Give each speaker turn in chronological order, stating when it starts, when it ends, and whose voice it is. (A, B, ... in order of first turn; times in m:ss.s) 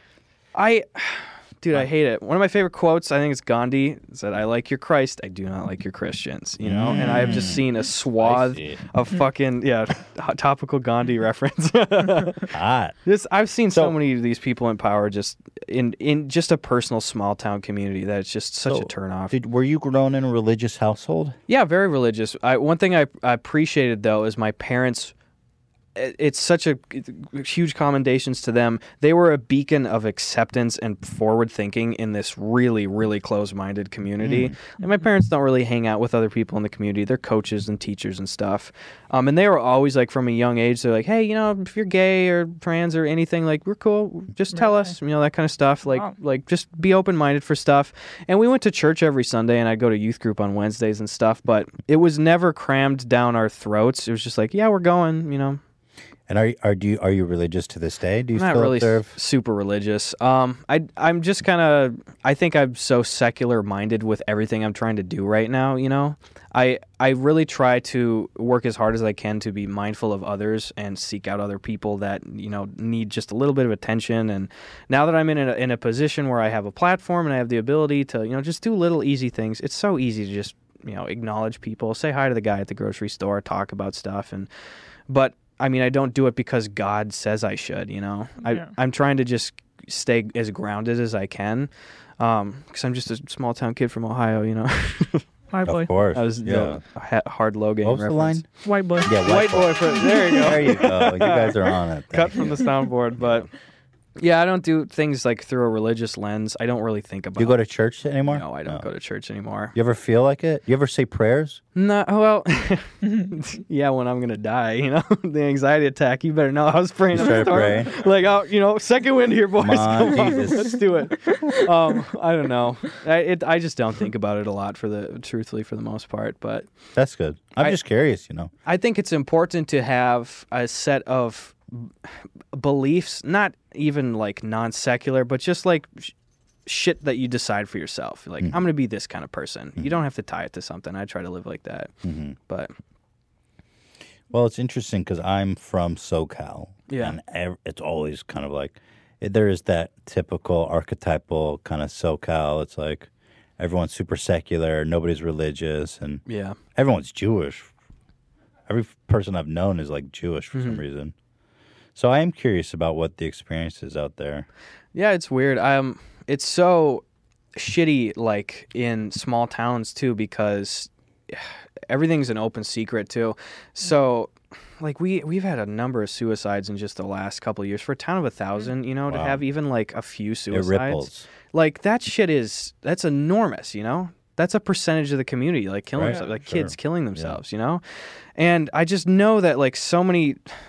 0:00.5-0:12.5 A
0:06.6-0:08.8 B
0:12.5-0:13.0 B
0:13.0-0:19.3 A
0:13.7-0:14.0 B
0:18.7-0:21.4 B
0:21.5-0:25.1 A
0:25.9-0:55.6 A
0:34.2-0:34.5 B
0:44.5-0:44.9 C
0:45.9-0:46.1 C
0:56.3-0:59.1 B
0:58.3-1:24.5 A
1:25.1-1:35.2 A
1:28.4-1:28.7 C
1:35.5-1:35.9 C
1:35.6-1:36.8 B
1:36.1-1:38.4 A
1:37.8-1:38.4 B
1:38.6-1:39.2 C
1:39.0-1:42.6 B
1:39.2-1:43.5 A
1:40.0-1:40.5 C
1:44.2-1:47.6 A
1:47.4-1:48.9 B
1:48.3-1:49.7 A
1:49.7-1:51.6 B
1:51.7-2:06.7 A
1:57.1-1:57.9 B
1:57.4-1:57.8 C
1:59.6-2:00.7 B
2:07.0-2:08.5 B
2:08.6-2:16.1 A
2:16.6-2:21.9 A
2:22.0-2:22.4 B
2:22.5-2:22.7 A
2:24.3-2:36.2 B
2:26.9-2:27.2 A
2:36.2-2:36.6 A
2:36.7-2:37.7 B
2:38.7-2:41.1 B
2:40.5-2:40.8 A
2:42.0-2:44.5 B
2:44.9-2:47.0 A
2:47.5-3:07.8 A
2:59.1-2:59.4 B
3:00.5-3:01.3 B
3:05.9-3:07.4 B
3:08.4-3:10.6 A